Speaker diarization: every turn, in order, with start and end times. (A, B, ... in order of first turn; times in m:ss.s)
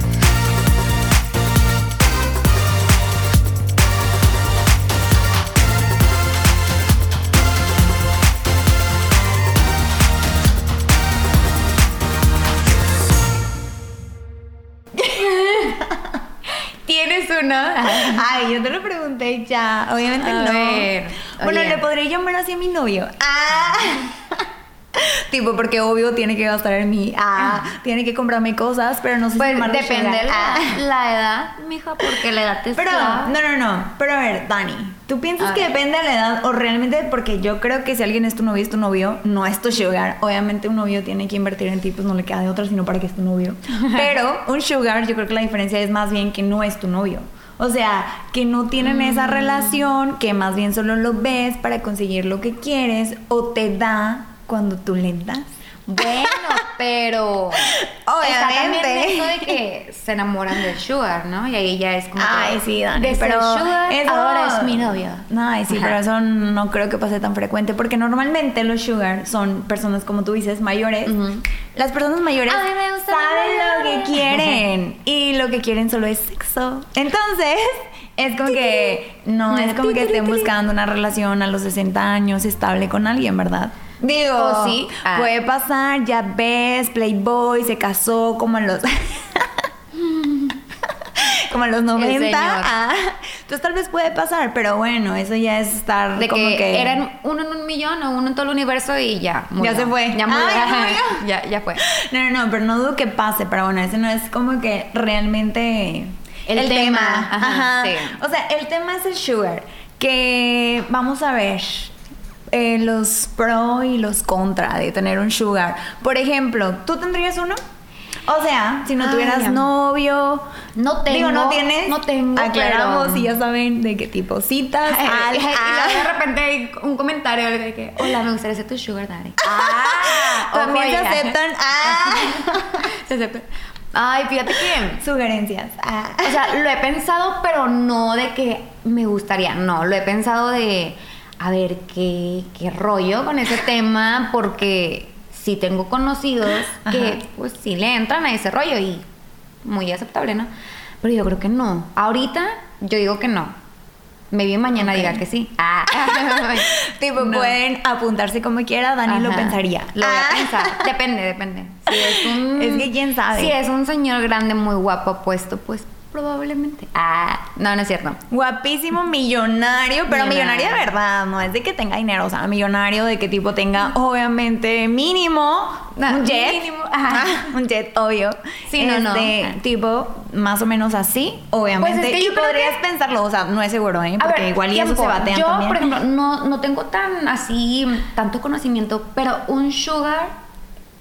0:15.0-0:15.8 A
0:16.5-0:18.3 A
0:17.9-0:30.8 B
0:20.2-0:21.9 A
0:29.4-0:33.4 A
0:32.8-0:56.5 B
0:35.4-0:35.7 A
0:48.8-0:49.8 A
0:55.9-1:06.0 A
0:57.6-0:59.6 B
1:02.2-1:11.2 B
1:11.1-1:11.4 A
1:11.8-1:29.6 B
1:12.5-1:14.6 A
1:18.3-1:20.5 A
1:24.3-1:25.3 A
1:30.1-1:30.5 A
1:31.0-1:37.0 B
1:32.0-1:32.7 A
1:36.2-1:41.8 A
1:39.6-1:41.2 B
1:41.8-1:51.9 B
1:46.5-1:48.2 A
1:52.5-1:57.6 B
1:58.3-2:00.5 B
1:59.0-1:59.7 A
2:00.8-2:03.4 A
2:01.1-2:06.2 B
2:04.9-2:15.0 A
2:09.4-2:12.9 B
2:15.0-2:16.4 B
2:16.2-2:29.1 A
2:26.8-2:27.2 B
2:29.6-2:30.5 A
2:31.0-2:33.6 A
2:34.3-2:37.6 A
2:34.8-2:35.2 B
2:36.3-2:40.9 B
2:39.1-2:48.2 A
2:41.9-2:43.6 B
2:48.3-3:05.9 B
2:50.1-2:50.9 A
2:56.0-2:57.4 A
2:58.7-2:59.5 A
3:01.8-3:02.8 A
3:04.2-3:10.3 A